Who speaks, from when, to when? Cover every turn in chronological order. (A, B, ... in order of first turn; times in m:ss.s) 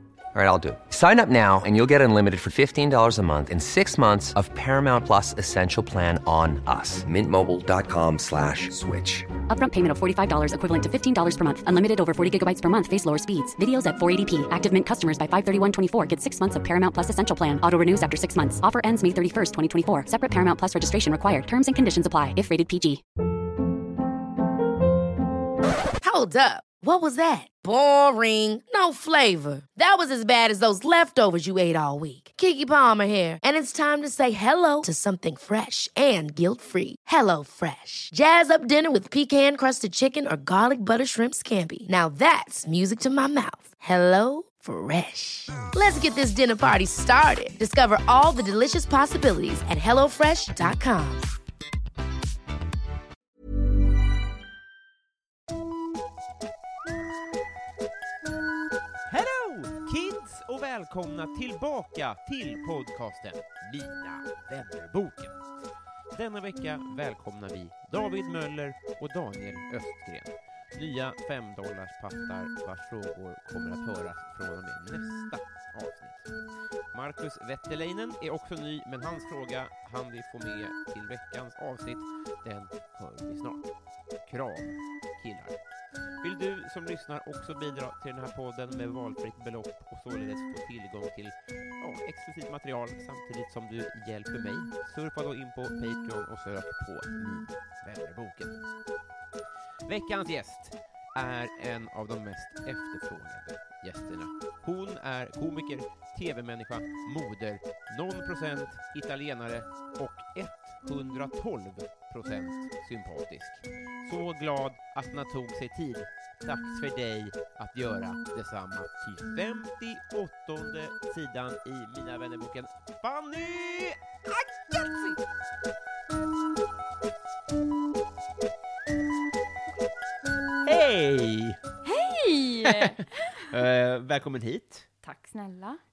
0:00.3-0:09.3 A
0:09.5-0:23.0 B
0:26.0-0:51.3 C
0:59.1-1:05.4 D
1:06.1-1:16.3 D
1:16.9-1:23.7 D
1:24.3-1:25.6 D
1:26.2-1:38.6 D
1:39.9-2:04.9 D
2:04.8-2:05.2 E
2:10.6-2:11.6 D
2:11.8-2:13.6 E
2:12.6-2:14.9 D
2:15.0-2:15.8 E